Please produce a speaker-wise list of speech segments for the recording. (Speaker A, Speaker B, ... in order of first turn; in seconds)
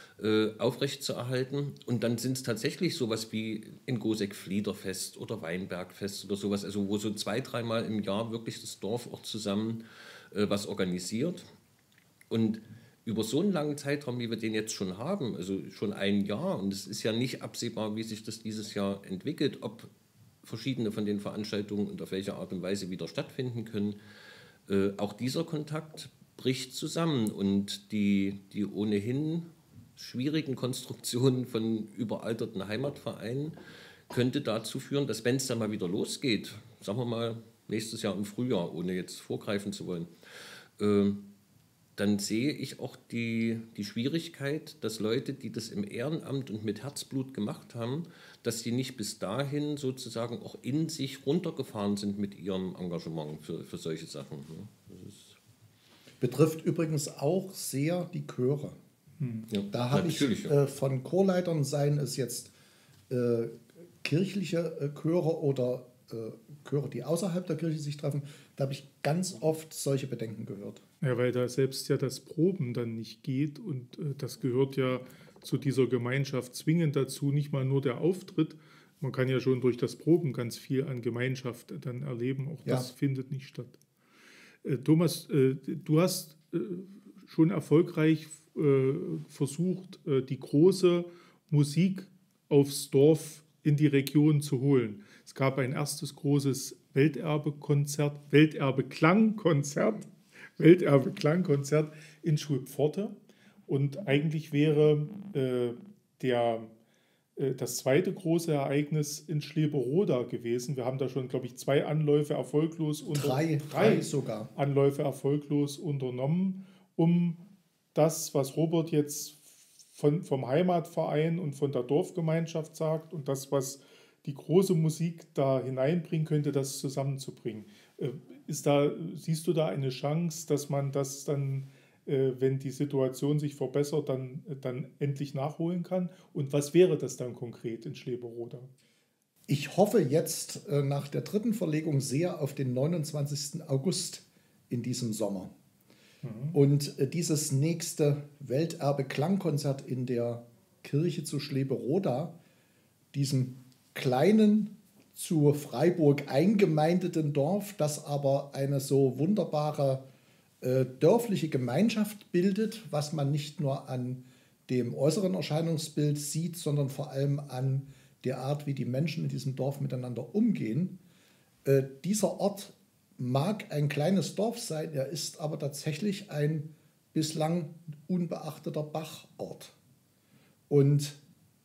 Speaker A: 0.2-11.5, 12.3-19.9, 20.4-24.0, 24.7-33.6, 34.1-40.1, 40.8-41.3, 42.0-55.4, 59.5-60.5
Speaker B: 56.2-58.8, 59.7-62.5, 63.1-70.8, 113.1-114.5, 139.5-145.5, 146.5-152.3, 153.1-160.1, 160.6-171.0, 171.7-179.8, 180.7-181.2
Speaker C: 59.2-59.5, 71.0-83.8, 84.6-103.2, 103.7-106.7, 107.4-117.4, 118.0-138.7, 146.2-146.6